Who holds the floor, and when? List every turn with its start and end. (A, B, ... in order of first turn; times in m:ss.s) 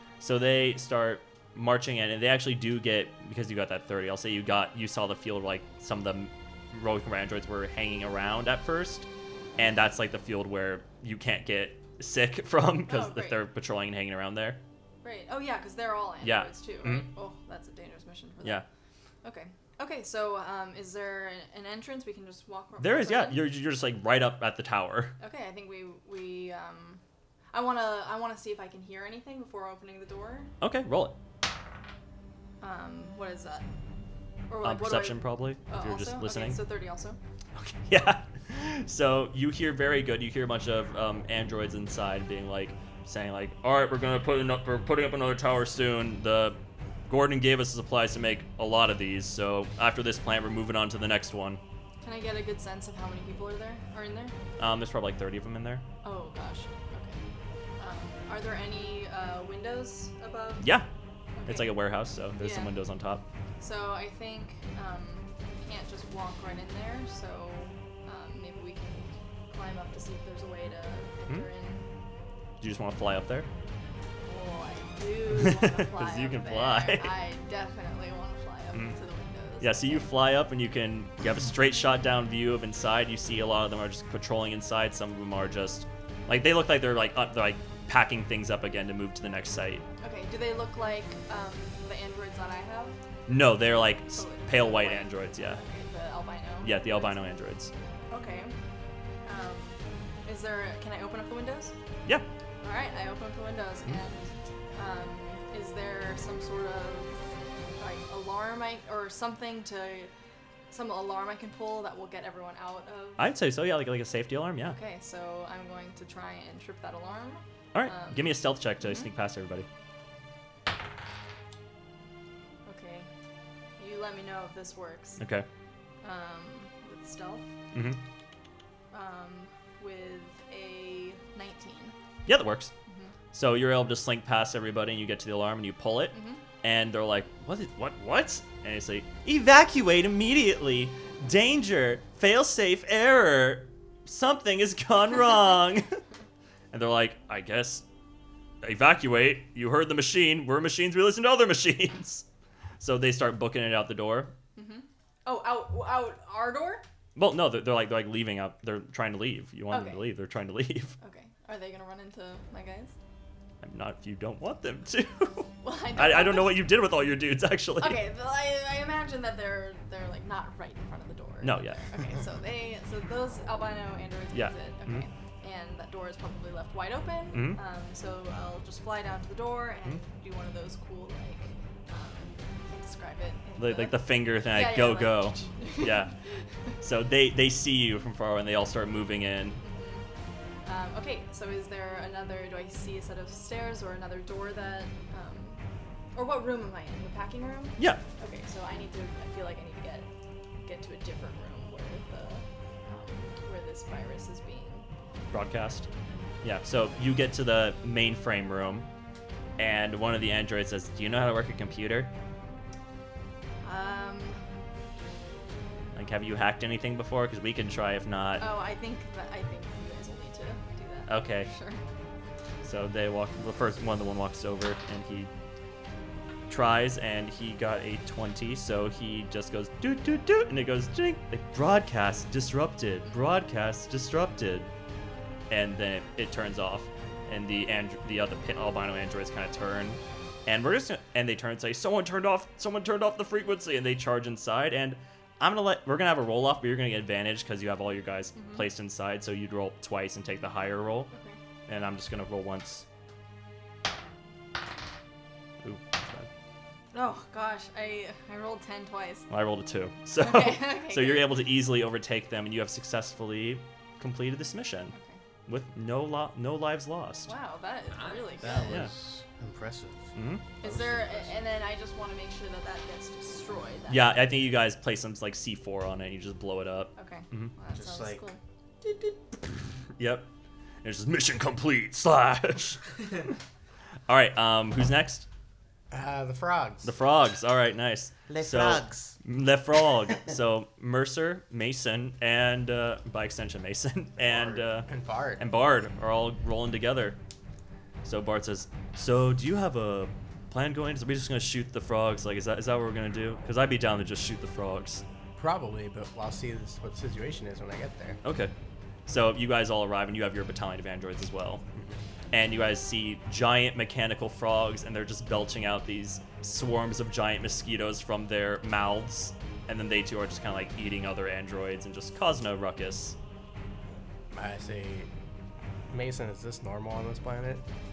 0:00.2-0:14.6 A
0:12.9-0:13.4 B
0:15.0-0:18.6 B
0:16.2-0:17.1 A
0:19.2-0:23.4 B
0:22.8-0:25.2 A
0:25.2-0:27.0 B
0:27.5-0:30.5 B
0:30.6-0:31.2 A
0:32.6-0:33.6 B
0:34.5-0:37.2 B
0:34.6-0:36.6 A
0:37.6-0:46.6 A
0:47.1-0:51.6 A
0:52.0-0:54.3 B
0:54.6-0:55.8 A
0:56.0-0:57.2 B
0:57.8-1:00.7 B
1:00.6-1:00.9 A
1:01.4-1:02.7 B
1:01.4-1:03.2 A
1:03.6-1:11.9 B
1:12.6-1:13.5 A
1:14.2-1:20.1 B
1:15.3-1:17.1 A
1:19.6-1:29.8 A
1:30.0-1:33.0 B
1:33.3-1:35.6 A
1:34.1-1:37.2 B
1:36.6-1:37.7 A
1:38.1-1:38.5 B
1:39.2-1:41.7 B
1:42.6-1:47.2 B
1:47.8-1:50.1 B
1:50.7-1:53.3 B
1:53.2-1:54.8 A
1:54.7-1:59.1 B
1:57.7-1:59.6 A
2:02.6-2:03.1 B
2:03.8-2:05.2 B
2:05.2-2:05.4 A
2:06.0-2:07.5 B
2:07.7-2:08.0 A
2:08.9-2:11.9 B
2:12.2-2:12.7 A
2:12.9-2:13.1 B
2:13.3-2:26.0 A
2:16.1-2:16.4 B
2:26.7-2:27.8 A
2:28.6-2:32.2 A
2:32.8-2:34.3 A
2:34.5-2:36.8 B
2:37.2-2:40.9 A
2:39.7-2:40.0 B
2:41.0-2:42.9 B
2:43.6-2:48.0 A
2:45.6-2:46.7 B
2:47.8-3:06.4 B
2:51.4-2:51.8 A
2:54.3-2:55.1 A
2:57.3-2:57.6 A
3:03.6-3:06.1 A
3:06.8-3:09.6 A
3:09.6-3:10.0 B
3:10.6-3:15.6 B
3:16.1-3:20.1 B
3:17.8-3:18.0 A
3:20.6-3:24.8 B
3:25.3-3:28.9 A
3:29.6-3:32.1 A
3:33.6-3:34.4 B
3:35.9-3:38.5 A
3:38.4-3:41.8 B
3:41.1-3:41.5 A
3:42.6-3:45.3 A
3:46.5-3:54.7 A
3:55.5-4:11.1 A
4:08.3-4:08.7 B
4:11.1-4:11.4 B
4:11.7-4:12.8 A
4:15.6-4:16.3 A
4:16.9-4:19.3 B
4:19.3-4:24.9 A
4:20.2-4:21.4 B
4:24.9-4:25.2 B
4:25.5-4:27.3 A
4:27.2-4:28.8 B
4:28.1-4:31.3 C
4:28.6-4:28.9 A
4:30.1-4:30.4 A
4:30.6-4:34.2 B
4:33.9-4:37.5 A
4:37.0-4:38.4 B
4:37.7-4:38.3 C
4:40.0-4:40.3 A
4:40.8-4:42.9 A
4:44.1-4:45.3 A
4:45.9-4:46.9 D
4:46.8-4:57.2 A
4:48.3-4:49.1 C
4:54.2-4:55.4 D
4:58.0-5:05.0 A
5:05.4-5:08.2 D
5:08.2-5:08.5 A
5:09.0-5:11.6 A
5:12.3-5:23.2 A
5:24.3-5:25.1 D
5:25.9-5:27.6 D